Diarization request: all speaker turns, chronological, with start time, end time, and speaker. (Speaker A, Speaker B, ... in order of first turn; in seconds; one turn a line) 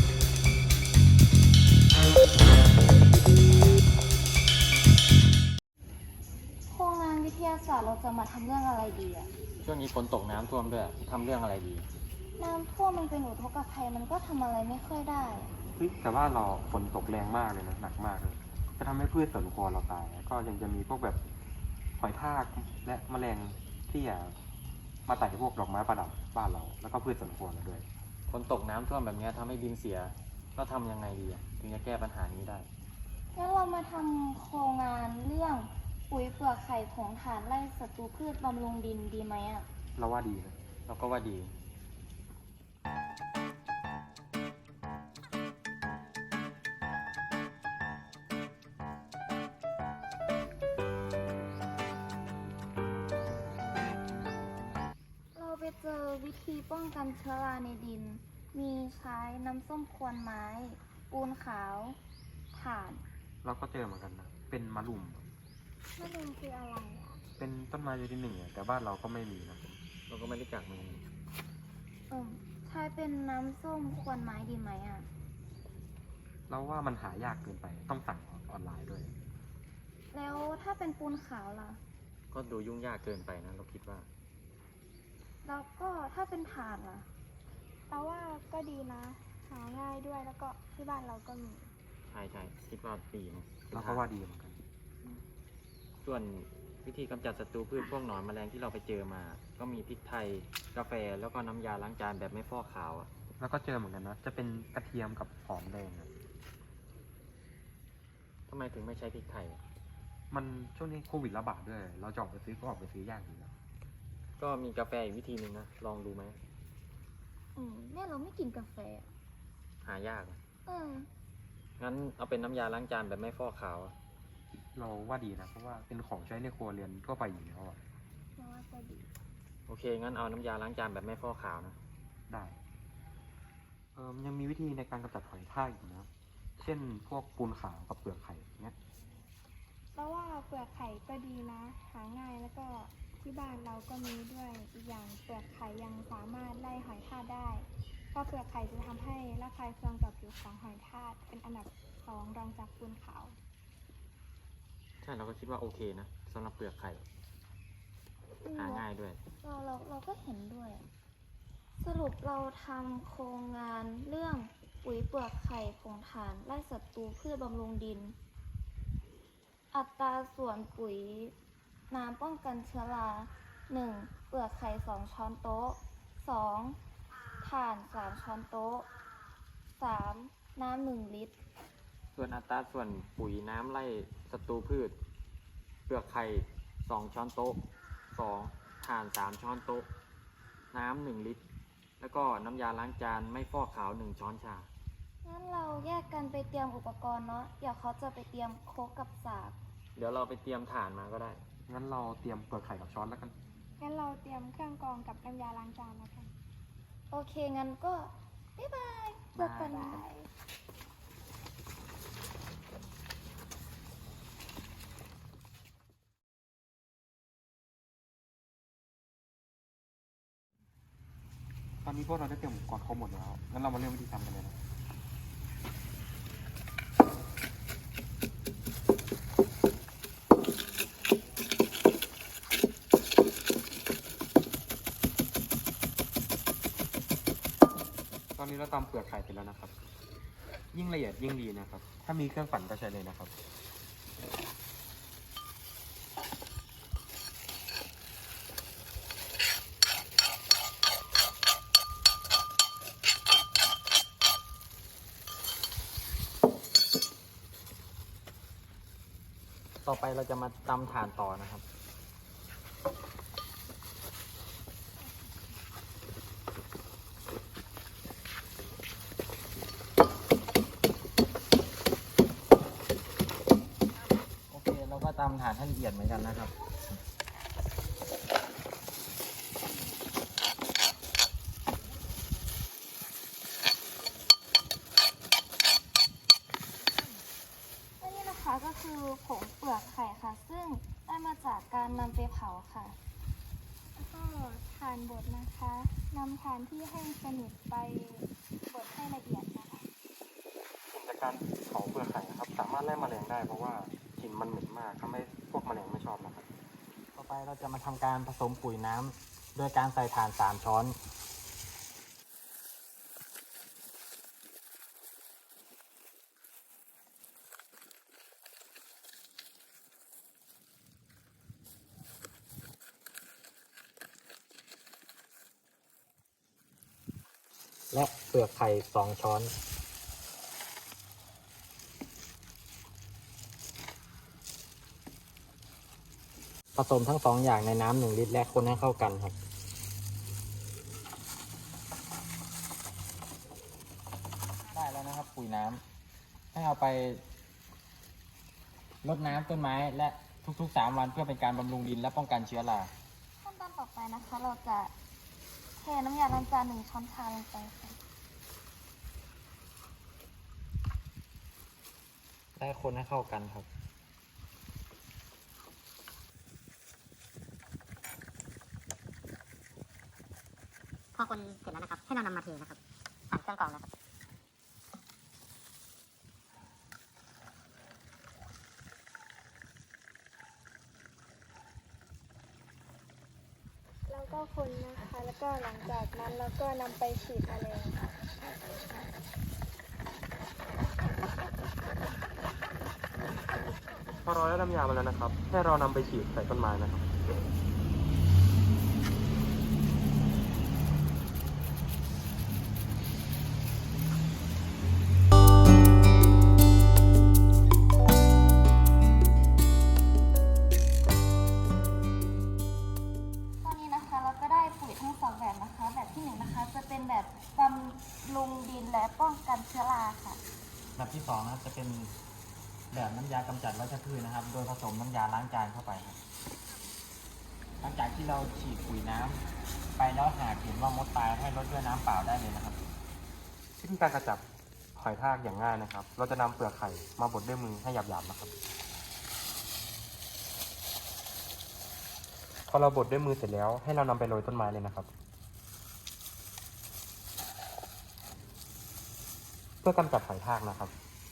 Speaker A: 6.7-9.3
Speaker B: 9.6-11.9
Speaker A: 12.4-15.5
Speaker C: 15.8-21.2
Speaker C: 22.0-24.4
Speaker C: 25.1-27.8
Speaker B: 28.3-32.7
Speaker A: 33.3-39.7
Speaker C: 40.0-40.6
Speaker B: 40.9-41.5
Speaker A: 55.3-62.0
Speaker A: 62.5-63.0
Speaker C: 63.4-65.3
Speaker D: 66.0-67.2
Speaker C: 67.4-69.6
Speaker B: 70.1-71.0
Speaker A: 72.1-75.1
Speaker C: 76.5-79.1
Speaker A: 80.1-81.8
Speaker B: 82.3-84.1
Speaker A: 85.4-87.1
Speaker D: 87.9-91.7
Speaker B: 92.1-94.0
Speaker C: 93.7-94.6
Speaker B: 96.0-103.1
Speaker C: 103.4-106.1
Speaker B: 108.5-109.6
Speaker C: 110.3-113.5
Speaker B: 114.4-116.4
Speaker A: 117.5-119.1
Speaker B: 119.8-120.4
Speaker A: 120.7-121.1
Speaker B: 121.8-123.9
Speaker C: 124.7-127.8
Speaker A: 128.4-129.1
Speaker B: 129.7-131.8
Speaker C: 132.3-132.6
Speaker C: 133.9-138.8
Speaker D: 139.9-153.3
Speaker B: 155.0-157.0
Speaker A: 158.4-158.8
Speaker B: 158.5-159.2
Speaker A: 159.4-160.9
Speaker A: 161.8-168.2
Speaker A: 169.7-171.3
Speaker A: 171.9-176.8
Speaker A: 177.4-178.9
Speaker A: 179.8-181.4
Speaker B: 182.1-184.9
Speaker B: 185.9-189.9
Speaker B: 190.7-191.4
Speaker B: 192.0-194.7
Speaker A: 195.2-199.6
Speaker B: 199.9-201.4
Speaker C: 201.7-203.3
Speaker D: 203.8-206.3
Speaker A: 207.1-210.2
Speaker D: 209.3-210.1
Speaker C: 221.8-224.6
Speaker C: 238.3-239.9
Speaker C: 240.7-243.3
Speaker B: 259.8-261.6
Speaker B: 274.5-276.5
Speaker A: 288.0-293.0
Speaker D: 293.9-299.9
Speaker C: 300.9-306.5
Speaker B: 307.1-311.0
Speaker B: 327.9-329.5
Speaker B: 336.7-339.4
Speaker B: 344.7-345.8
Speaker B: 346.5-347.2
Speaker B: 349.0-352.9
Speaker A: 353.4-354.9
Speaker A: 355.8-358.0
Speaker B: 362.6-363.7
Speaker E: 371.1-372.8
Speaker E: 373.3-373.9
Speaker D: 384.1-388.0
Speaker C: 394.2-397.1
Speaker A: 413.6-420.4
Speaker B: 420.9-422.1
Speaker B: 422.9-426.2
Speaker B: 427.8-429.4
Speaker B: 430.0-432.8
Speaker C: 433.8-434.4
Speaker C: 434.9-438.5
Speaker C: 442.7-445.1
Speaker C: 449.8-450.9